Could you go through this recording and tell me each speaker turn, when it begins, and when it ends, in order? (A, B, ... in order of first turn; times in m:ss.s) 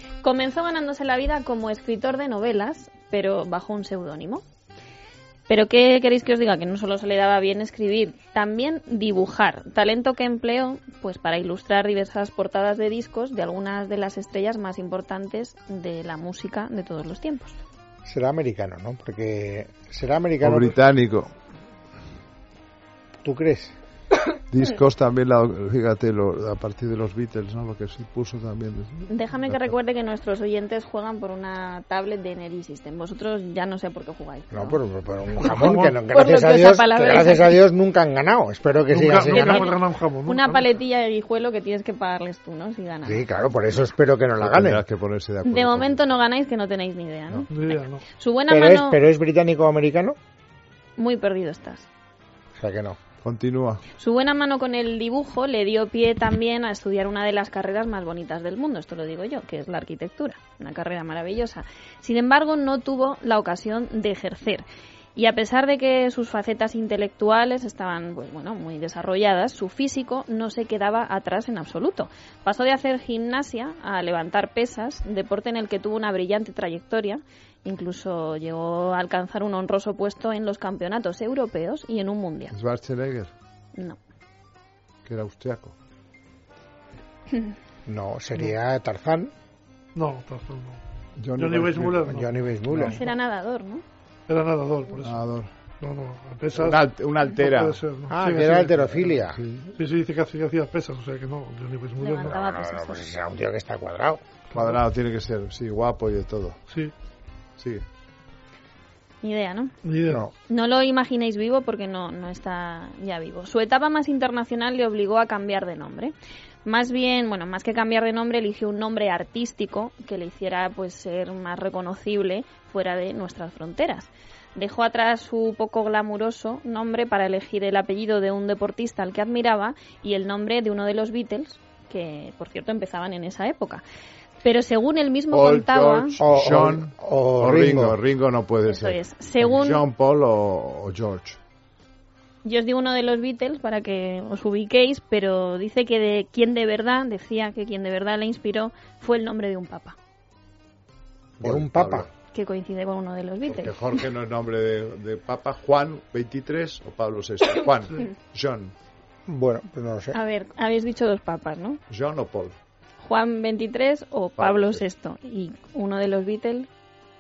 0:00.2-0:04.4 A
0:05.5-0:17.6 A
0:18.0-0:20.8 B
0:20.4-0:21.3 C
0:23.2-0:23.8 B
0:24.5-0:29.7 C
0:29.1-0:34.8 A
0:34.5-0:39.7 B
0:35.4-0:36.0 D
0:36.1-0:37.6 A
0:38.9-0:40.7 D
0:39.3-0:43.3 A
0:43.0-0:44.8 B
0:44.4-0:46.2 C
0:45.4-0:49.0 A
0:47.5-0:48.0 D
0:48.5-0:50.2 B
0:51.0-0:51.9 A
0:52.6-0:53.0 B
0:53.2-0:53.8 C
0:54.0-1:04.6 A
1:05.2-1:22.5 A
1:22.5-1:23.3 C
1:25.1-1:25.7 C
1:27.9-1:29.3 B
1:30.0-1:30.8 D
1:31.2-1:32.1 C
1:31.4-1:32.3 D
1:32.1-1:33.1 B
1:32.7-1:33.0 C
1:32.9-1:33.8 A
1:34.3-1:35.2 D
1:35.0-1:35.5 C
1:35.8-1:39.1 D
1:36.5-1:37.8 C
1:38.1-1:39.4 B
1:39.4-1:39.8 C
1:39.8-1:42.4 D
1:42.0-1:43.1 A
1:42.2-1:44.2 B
1:44.5-1:44.8 D
1:44.6-1:46.6 C
1:47.6-1:47.8 C
1:49.2-1:49.7 A
1:49.8-1:50.3 D
1:50.5-1:56.1 A
1:56.6-2:13.8 A
2:14.4-2:16.2 A
2:15.3-2:21.4 C
2:16.2-2:18.0 B
2:18.7-2:19.8 A
2:22.4-2:30.0 A
2:31.4-2:32.1 C
2:31.4-2:32.1 B
2:32.3-2:34.0 A
2:33.5-2:38.7 C
2:39.3-2:40.2 B
2:40.1-2:41.8 A
2:41.9-2:42.5 C
2:43.0-2:46.7 A
2:44.4-2:44.8 C